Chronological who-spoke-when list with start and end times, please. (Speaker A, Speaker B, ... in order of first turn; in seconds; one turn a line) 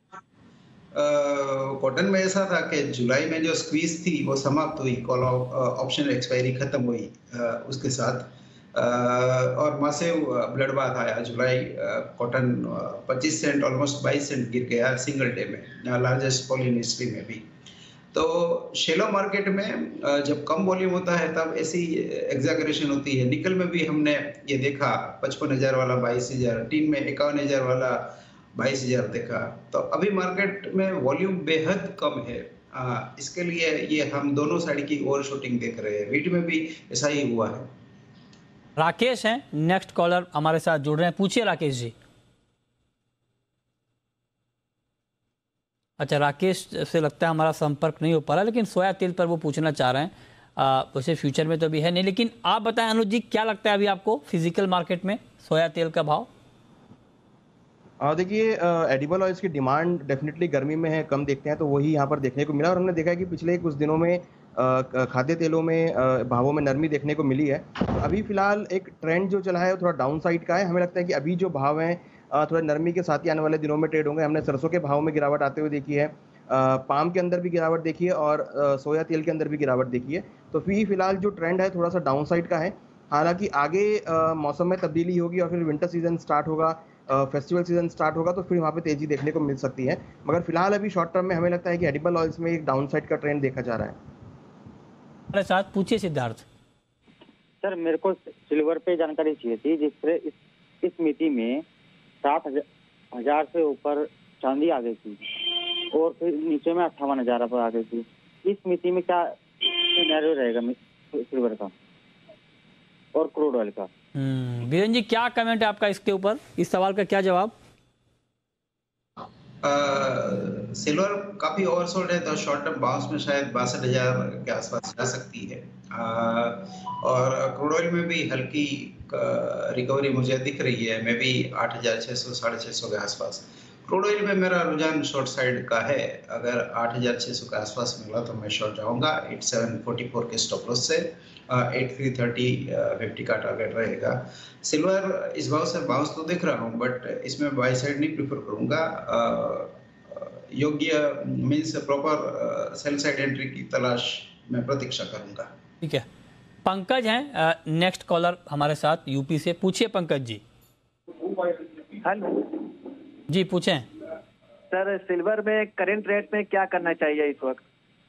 Speaker A: 0.9-17.4
Speaker A: 18.1-37.7
Speaker B: 38.8-41.9
Speaker B: 46.0-56.3
Speaker C: 58.0-94.0
Speaker B: 95.3-96.4
Speaker D: 97.6-101.6
Speaker D: 102.2-102.6
Speaker D: 103.1-111.7
Speaker D: 113.2-113.9
Speaker B: 114.2-117.5
Speaker A: 119.6-155.5
Speaker B: 155.8-156.1
Speaker B: 156.7-160.4
Speaker E: 162.0-162.4
Speaker B: 163.3-163.9
Speaker E: 164.7-167.6